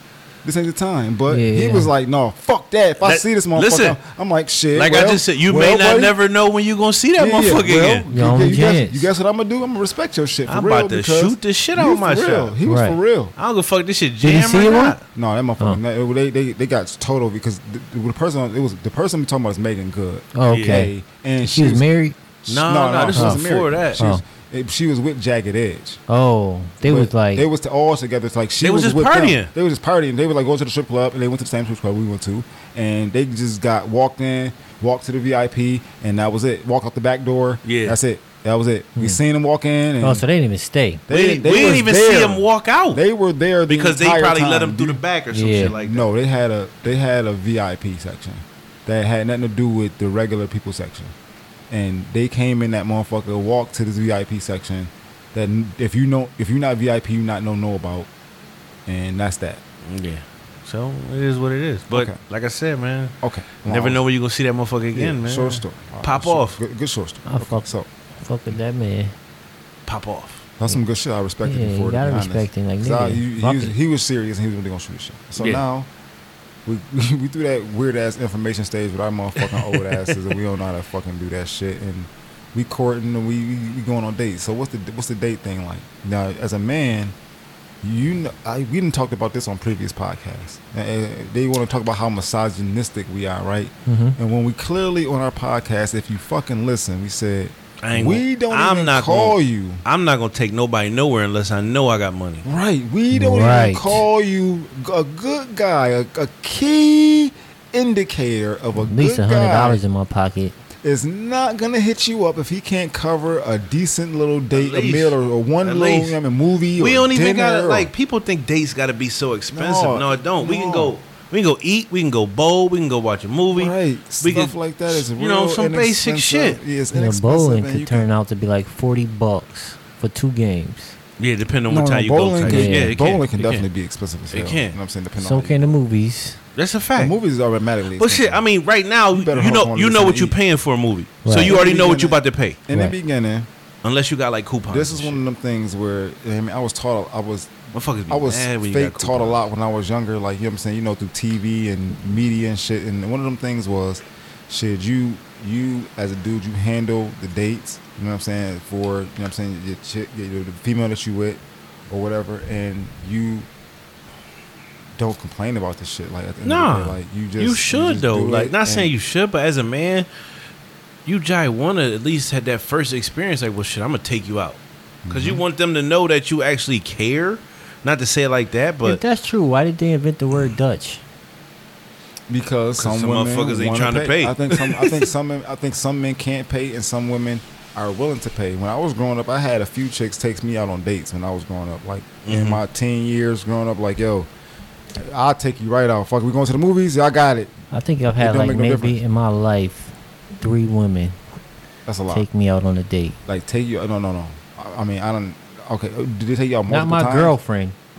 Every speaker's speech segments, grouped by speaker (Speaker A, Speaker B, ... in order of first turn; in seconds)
Speaker A: 0.4-6.1, 7.2-13.3, 15.1-21.9, 22.4-26.0, 26.8-40.2, 41.1-45.0, 45.6-51.1, 51.7-58.1, 58.9-59.6, 61.9-62.2, 63.2-64.0, 64.9-67.9, 70.6-75.9, 76.7-87.1, 87.8-99.8, 102.4-109.8, 110.8-117.9, 119.5-120.9, 123.5-128.1, 131.7-135.8, 137.0-138.4, 139.1-140.3, 141.3-143.5, 144.7-147.6, 148.1-163.5, 164.9-168.9, 175.0-175.4, 182.3-194.3, 194.9-197.5, 198.2-199.0, 201.8-202.2, 203.3-207.3
Speaker B: 1.3-1.9, 8.1-9.1, 12.6-13.0, 14.2-15.0, 20.3-22.2, 23.1-23.4, 24.0-24.2, 26.1-27.5, 40.0-41.0, 45.3-45.7, 67.2-67.7, 68.2-69.1, 71.4-73.7, 93.9-94.2, 103.1-104.0, 108.8-110.5, 126.9-131.0, 132.4-133.0, 135.2-136.4, 141.2-141.6, 178.8-181.0, 197.7-201.2, 202.1-203.2, 206.7-207.8
Speaker C: 3.0-4.0, 4.7-8.1, 10.4-12.5, 13.4-15.0, 20.4-20.9, 22.5-24.1, 28.6-29.5, 37.6-38.0, 41.1-43.0, 43.7-46.1, 59.8-66.6, 69.8-70.4, 75.4-75.6, 79.4-80.2, 97.8-102.5, 114.5-116.2, 116.8-126.6, 131.2-133.7, 134.3-134.8, 136.6-137.1, 137.9-142.6, 143.8-145.2, 147.7-149.4, 166.4-170.1, 171.1-179.0, 182.8-185.1, 192.2-192.6